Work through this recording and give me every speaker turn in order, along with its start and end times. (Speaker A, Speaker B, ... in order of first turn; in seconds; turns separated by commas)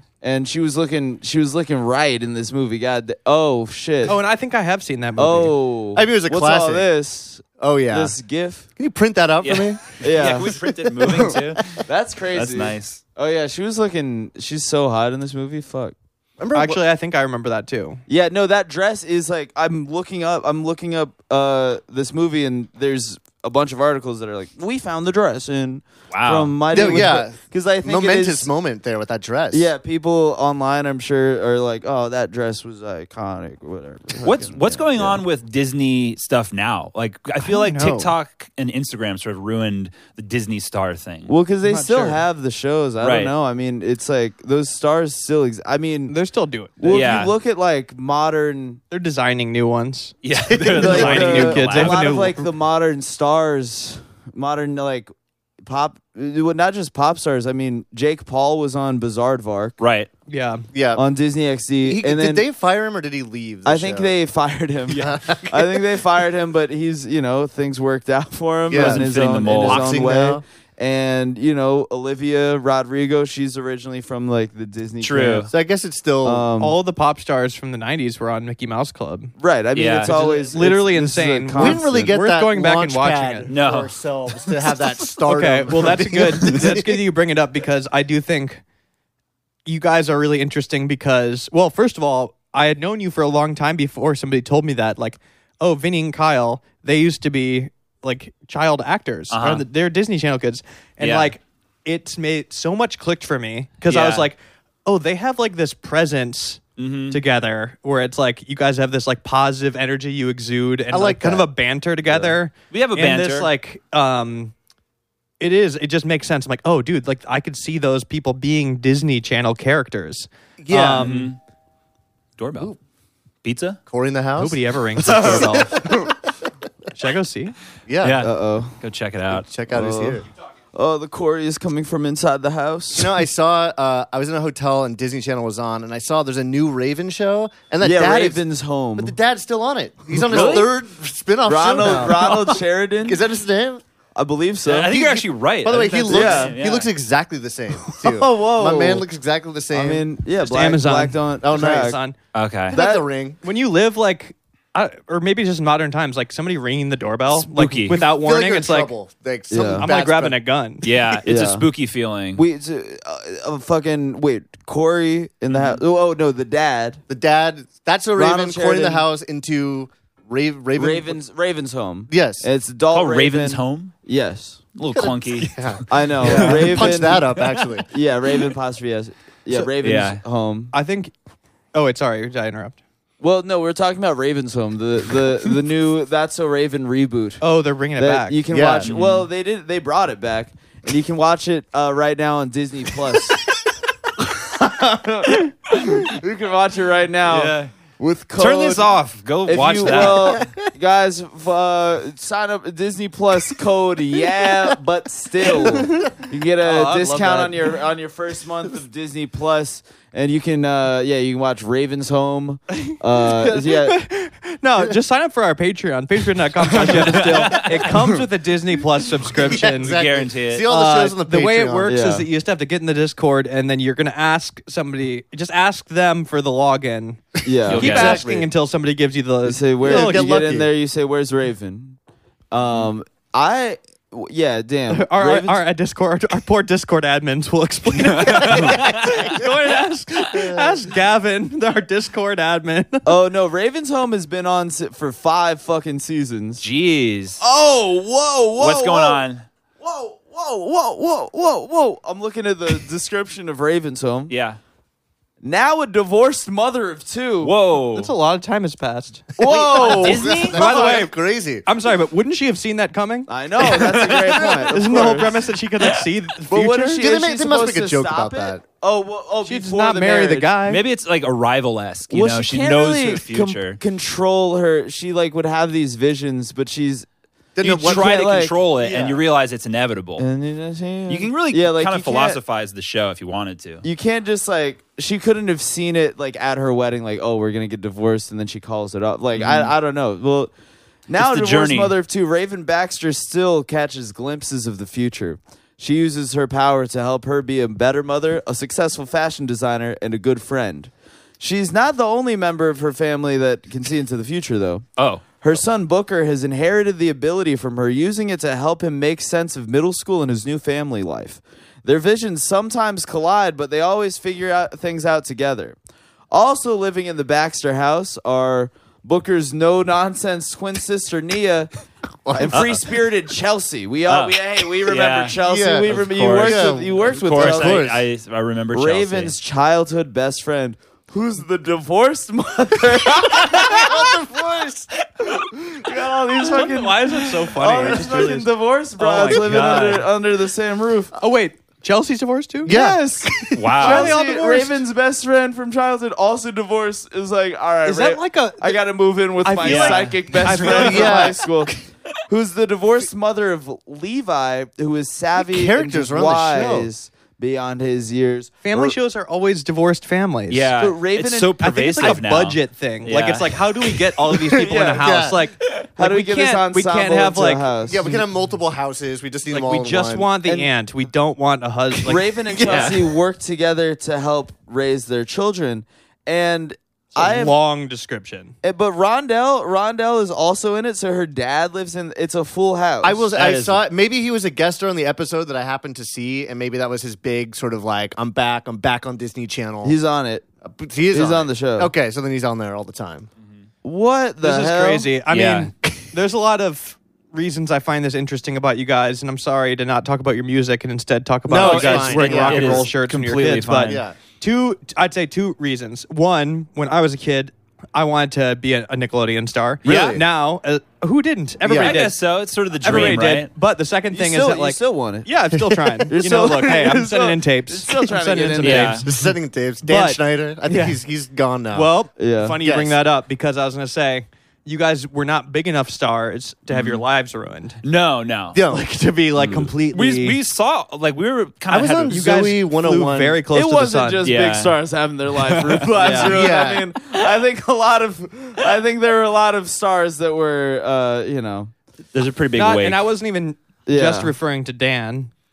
Speaker A: 0.2-4.2, Speaker B: 4.0-5.5, Speaker A: 5.2-8.7, Speaker C: 6.0-6.9, Speaker C: 7.6-8.2, Speaker C: 8.8-11.8, Speaker D: 9.4-13.0, Speaker A: 10.0-10.6, Speaker A: 11.8-16.0, Speaker C: 16.4-16.8, Speaker B: 16.6-18.0, Speaker A: 18.1-28.5, Speaker D: 26.1-27.1, Speaker C: 26.7-29.7, Speaker A: 29.5-35.2, Speaker D: 34.2-41.3, Speaker B: 37.4-38.1, Speaker A: 41.3-46.1, Speaker B: 41.6-42.2, Speaker D: 43.0-43.3, Speaker B: 46.1-47.0, Speaker A: 46.8-48.8, Speaker D: 46.9-47.3, Speaker B: 48.9-52.5, Speaker D: 50.2-52.2, Speaker A: 50.7-55.1, Speaker A: 55.6-59.8, Speaker D: 59.8-60.1, Speaker B: 60.3-60.7, Speaker C: 60.7-61.0, Speaker A: 61.0-62.5, Speaker C: 61.8-64.1, Speaker A: 63.6-75.5, Speaker C: 64.9-65.8, Speaker C: 68.7-70.4, Speaker D: 68.7-70.0, Speaker D: 75.0-75.5, Speaker C: 75.5-76.5, Speaker A: 76.2-76.8, Speaker B: 76.6-79.3, Speaker A: 79.4-82.1, Speaker D: 79.8-80.2, Speaker B: 80.1-83.5, Speaker C: 81.5-87.0, Speaker D: 83.5-83.9, Speaker B: 85.3-88.6, Speaker B: 89.7-114.5, Speaker D: 99.3-99.7, Speaker D: 101.0-101.3, Speaker D: 103.9-104.3, Speaker D: 106.8-107.2, Speaker C: 110.9-111.5, Speaker D: 112.7-113.5, Speaker B: 115.4-121.3, Speaker C: 120.6-121.1, Speaker D: 121.0-121.4, Speaker D: 122.4-122.8, Speaker D: 123.4-123.8, Speaker C: 123.9-126.2, Speaker B: 124.4-125.8, Speaker D: 125.1-125.4, Speaker A: 125.2-125.9, Speaker B: 127.0-127.5, Speaker C: 127.9-128.2, Speaker D: 128.0-129.5, Speaker A: 128.2-128.8, Speaker C: 129.3-130.3, Speaker A: 129.7-130.2, Speaker A: 130.7-133.2, Speaker C: 132.9-138.4, Speaker A: 137.8-139.2, Speaker C: 139.0-143.8, Speaker A: 140.2-140.7, Speaker D: 140.3-140.7, Speaker A: 141.4-143.2, Speaker A: 144.2-144.9, Speaker D: 144.7-146.9, Speaker C: 144.9-150.1, Speaker A: 146.1-146.6, Speaker A: 147.9-149.1, Speaker A: 149.7-152.0, Speaker B: 150.4-152.2, Speaker C: 151.4-152.0, Speaker D: 152.3-152.8, Speaker A: 152.7-153.1, Speaker C: 152.7-153.4, Speaker B: 153.4-158.9, Speaker D: 157.4-158.0, Speaker C: 157.9-160.4, Speaker A: 159.5-159.9, Speaker B: 159.8-160.9, Speaker D: 160.8-162.4, Speaker A: 161.2-161.7, Speaker A: 162.3-167.0, Speaker D: 165.5-165.8, Speaker C: 167.1-171.2, Speaker A: 168.2-169.1, Speaker A: 170.8-174.6, Speaker C: 172.1-172.5, Speaker D: 172.9-173.9, Speaker D: 174.8-175.5, Speaker C: 174.9-177.9, Speaker A: 175.9-177.4, Speaker D: 176.2-177.4, Speaker A: 177.9-180.7, Speaker D: 179.8-180.2, Speaker B: 180.7-181.1, Speaker B: 181.7-182.8, Speaker A: 183.2-187.4, Speaker B: 187.4-188.4, Speaker A: 188.0-193.4, Speaker C: 188.5-188.9, Speaker D: 188.8-189.3, Speaker A: 194.2-198.9, Speaker B: 197.3-197.6, Speaker D: 198.4-200.5, Speaker A: 199.4-214.0, Speaker B: 199.8-200.1, Speaker B: 206.6-207.7, Speaker B: 212.9-220.0, Speaker D: 216.8-217.9, Speaker C: 219.4-222.0, Speaker D: 219.6-220.7, Speaker B: 220.7-230.3, Speaker A: 221.9-222.3, Speaker A: 227.4-228.2, Speaker D: 227.7-228.4, Speaker C: 227.8-228.5, Speaker A: 229.4-232.0, Speaker C: 229.8-230.7, Speaker A: 232.5-235.6, Speaker B: 234.9-243.1, Speaker D: 238.0-239.3, Speaker C: 240.4-240.8, Speaker A: 243.1-246.7, Speaker D: 246.6-247.4, Speaker A: 247.4-249.2, Speaker D: 248.6-249.4, Speaker A: 249.8-254.3, Speaker D: 254.3-254.6, Speaker A: 255.4-257.5, Speaker D: 257.4-258.1, Speaker B: 258.0-261.1, Speaker A: 259.4-260.3, Speaker D: 259.8-260.7, Speaker C: 259.8-261.6, Speaker B: 261.7-267.0, Speaker A: 263.3-265.5, Speaker D: 263.6-264.6, Speaker A: 266.5-270.6, Speaker C: 267.0-268.6, Speaker B: 269.4-270.8, Speaker D: 270.7-273.8, Speaker A: 272.1-277.1, Speaker C: 277.6-278.3, Speaker D: 277.6-280.3, Speaker A: 277.7-278.6, Speaker C: 278.8-279.2, Speaker A: 280.2-282.4, Speaker D: 281.1-283.9, Speaker A: 283.8-290.5, Speaker D: 289.4-289.7, Speaker A: 291.1-304.9, Speaker D: 291.1-291.9, Speaker D: 305.0-305.4, Speaker A: 305.4-315.8, Speaker A: 316.3-321.7, Speaker C: 322.3-322.7, Speaker A: 322.3-327.9, Speaker D: 322.5-322.8, Speaker D: 324.1-329.4, Speaker C: 325.4-328.0, Speaker A: 328.7-334.1, Speaker C: 333.2-334.9, Speaker A: 335.3-341.1, Speaker B: 336.4-338.5, Speaker D: 339.0-340.1, Speaker B: 339.3-340.0, Speaker B: 341.1-342.8, Speaker C: 342.7-343.6, Speaker A: 342.7-351.8, Speaker D: 343.6-344.2, Speaker B: 343.8-344.9, Speaker B: 347.8-348.8, Speaker B: 349.4-351.4, Speaker D: 349.6-351.1, Speaker C: 350.7-351.5, Speaker A: 352.3-358.9, Speaker C: 355.4-356.9, Speaker B: 358.6-360.7, Speaker D: 360.5-363.6, Speaker A: 360.8-362.1, Speaker B: 361.6-368.2, Speaker A: 364.5-365.3, Speaker C: 364.9-365.4, Speaker A: 366.0-368.1, Speaker C: 367.9-370.3, Speaker B: 369.5-372.9, Speaker A: 370.4-370.7, Speaker A: 372.0-377.6, Speaker C: 372.6-372.9, Speaker D: 372.6-373.0, Speaker B: 377.1-378.6, Speaker A: 378.6-383.3, Speaker C: 383.0-390.0, Speaker D: 383.3-383.8, Speaker A: 389.8-390.4, Speaker C: 390.6-393.3, Speaker A: 391.1-391.9, Speaker A: 393.8-395.1, Speaker B: 394.4-412.2, Speaker D: 395.3-395.7, Speaker C: 401.5-402.9, Speaker D: 401.5-404.0, Speaker C: 403.9-404.2, Speaker D: 409.8-410.2, Speaker C: 409.8-410.2, Speaker C: 411.6-412.0, Speaker D: 411.8-413.5, Speaker B: 412.8-419.1, Speaker A: 412.9-413.2, Speaker A: 414.1-415.3, Speaker A: 416.1-419.0, Speaker D: 418.6-419.1, Speaker C: 419.1-421.9, Speaker B: 419.8-421.0, Speaker B: 421.7-427.8, Speaker A: 422.2-422.9, Speaker D: 426.7-427.0, Speaker D: 427.8-428.6, Speaker C: 428.5-430.4, Speaker D: 429.4-432.2, Speaker C: 431.7-433.4, Speaker B: 432.1-434.3, Speaker A: 433.5-441.7, Speaker D: 434.2-434.8, Speaker D: 435.3-436.4, Speaker B: 436.0-436.3, Speaker C: 436.2-436.9, Speaker D: 442.1-443.0, Speaker B: 442.5-445.3, Speaker A: 443.9-444.3